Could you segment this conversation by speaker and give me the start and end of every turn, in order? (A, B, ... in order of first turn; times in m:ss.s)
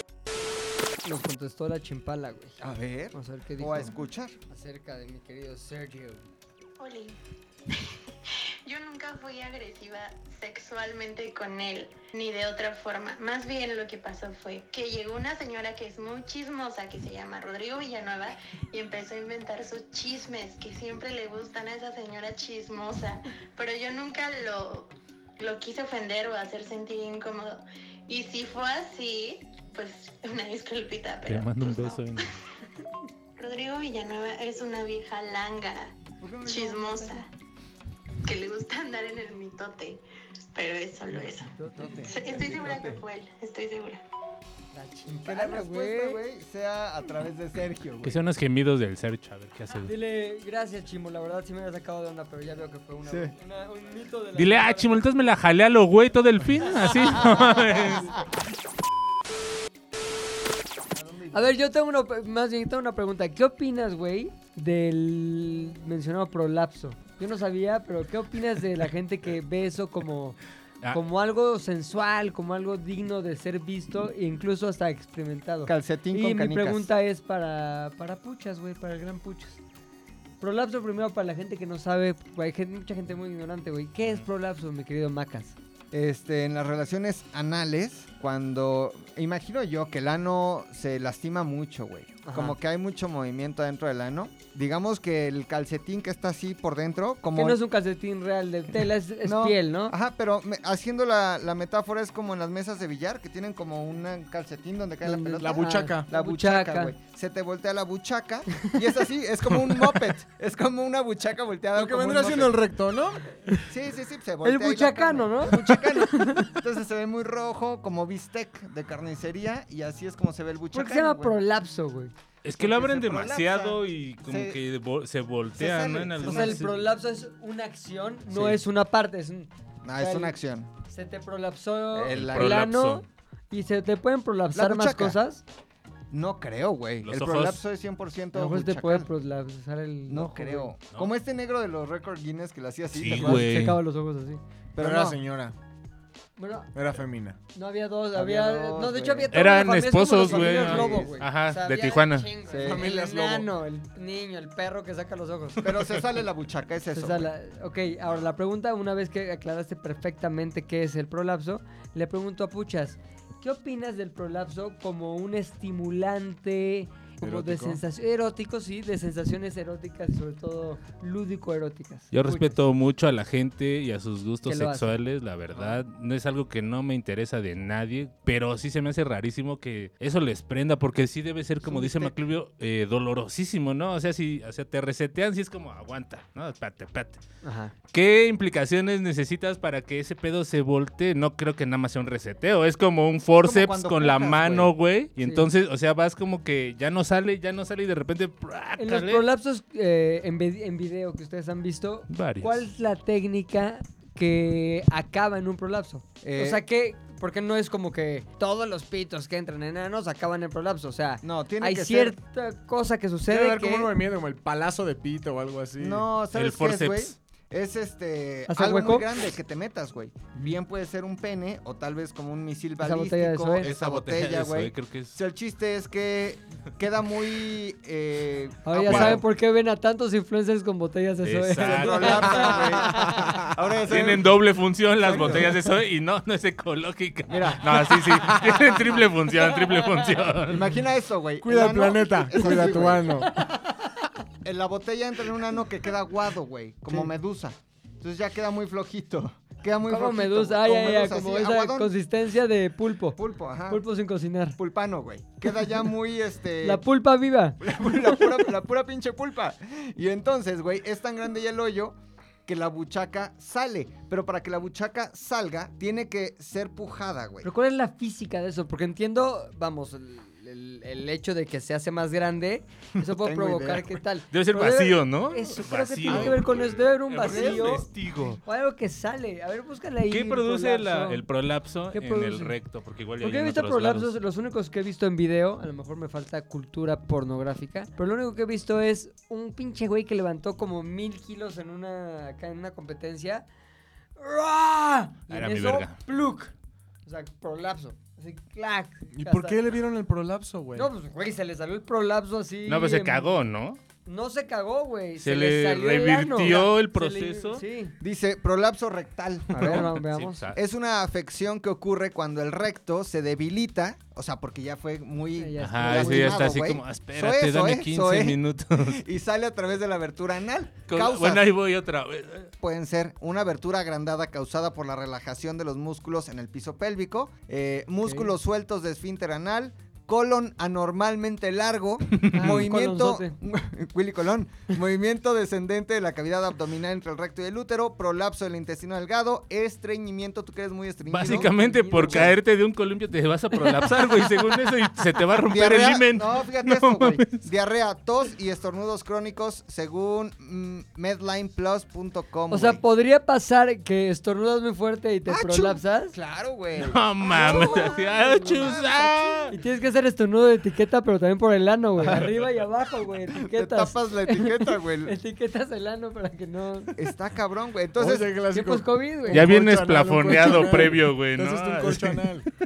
0:01.0-0:02.6 A
0:02.6-0:04.4 B
0:03.1-0:03.9 A
0:04.5-0:06.2 A
0:06.8-0:07.2 C
0:07.7-0:32.2 C
0:31.2-0:32.3 D
0:33.4-0:37.3 C
0:36.2-0:37.2 B
0:38.2-0:40.0 C
0:40.5-0:44.0 C
0:41.5-0:42.1 A
0:41.8-0:43.0 B
0:44.7-0:46.2 A
0:45.1-0:48.2 B
0:48.0-0:49.9 D
0:49.8-0:55.1 A
0:53.0-0:53.3 B
0:54.4-0:58.1 D
0:57.0-0:57.9 A
0:57.2-0:58.1 B
1:00.9-1:01.5 B
1:01.3-1:10.4 A
1:10.9-1:19.6 A
1:15.6-1:16.9 B
1:20.4-1:25.6 A
1:25.9-1:37.6 B
1:32.2-1:32.6 A
1:37.4-1:39.9 A
1:39.2-1:52.6 B
1:45.0-1:46.9 A
1:45.4-1:46.1 E
1:51.7-1:53.2 E
1:53.7-2:01.4 B
1:54.4-1:56.6 A
2:00.7-2:02.1 A
2:02.4-2:06.8 D
2:02.6-2:04.6 B
2:05.6-2:06.7 B
2:06.2-2:10.4 A
2:08.3-2:08.6 B
2:09.8-2:10.7 B
2:10.9-2:15.4 A
2:11.9-2:12.6 B
2:12.1-2:13.0 D
2:14.5-2:15.2 B
2:16.1-2:19.1 B
2:17.0-2:17.6 D
2:18.3-2:20.7 A
2:20.1-2:23.5 B
2:22.9-2:23.8 D
2:23.1-2:24.4 A
2:24.7-2:25.2 B
2:24.8-2:25.5 E
2:26.4-2:26.7 A
2:26.7-2:27.4 E
2:27.5-2:35.7 A
2:28.1-2:29.3 B
2:29.3-2:32.3 D
2:30.2-2:31.2 B
2:32.4-2:32.9 B
2:32.6-2:33.5 E
2:35.6-2:37.3 B
2:36.9-2:52.6 A
2:47.2-2:47.8 E
2:52.1-3:07.2 D
2:54.4-2:54.9 A
3:01.6-3:02.0 B
3:07.4-3:07.7 A
3:07.9-3:19.2 D
3:13.4-3:14.7 B
3:15.2-3:15.5 A
3:18.8-3:33.9 A
3:22.1-3:22.6 D
3:26.2-3:26.6 B
3:31.2-3:32.2 B
3:33.3-3:36.1 E
3:35.8-3:49.2 B
3:36.3-3:37.1 D
3:38.5-3:39.1 A
3:42.8-3:43.7 A
3:43.6-3:45.2 D
3:48.6-3:53.4 A
3:48.8-3:49.2 D
3:51.2-3:52.9 D
3:51.6-3:54.3 B
3:53.8-4:00.7 D
3:55.0-3:55.6 B
3:57.3-3:59.0 B
3:59.6-4:00.1 A
4:00.5-4:03.2 B
4:01.4-4:03.3 E
4:02.4-4:03.8 A
4:04.4-4:11.9 B
4:09.8-4:14.6 A
4:13.2-4:13.8 B
4:14.6-4:16.8 B
4:16.6-4:18.4 A
4:17.6-4:27.5 B
4:27.4-4:37.9 A
4:33.1-4:33.8 B
4:34.3-4:38.4 D
4:36.1-4:36.6 B
4:37.2-4:37.8 B
4:38.4-4:41.2 A
4:40.1-4:44.1 D
4:41.9-4:42.5 A
4:43.2-4:53.4 A
4:54.2-4:56.5 A
4:55.3-4:56.0 D
4:57.0-4:59.6 A
4:59.1-5:00.9 E
5:00.7-5:03.4 A
5:02.7-5:03.8 D
5:04.0-5:08.0 A
5:05.2-5:07.6 D
5:08.0-5:09.9 B
5:09.5-5:10.4 A
5:09.5-5:10.6 D
5:10.5-5:21.4 B
5:15.4-5:16.5 A
5:15.6-5:19.0 D
5:20.9-5:22.5 D
5:22.6-5:42.3 B
5:28.0-5:28.3 A
5:32.3-5:32.7 D
5:32.3-5:33.4 A
5:41.1-5:47.4 D
5:41.3-5:42.4 A
5:45.5-5:52.8 B
5:52.5-5:56.2 A
5:55.3-5:59.6 B
5:56.8-5:59.5 D
5:57.4-5:58.7 A
5:59.5-6:06.9 A
6:02.0-6:02.3 B
6:03.4-6:05.1 B
6:07.0-6:08.3 B
6:08.0-6:12.4 E
6:08.5-6:09.5 A
6:09.3-6:12.3 D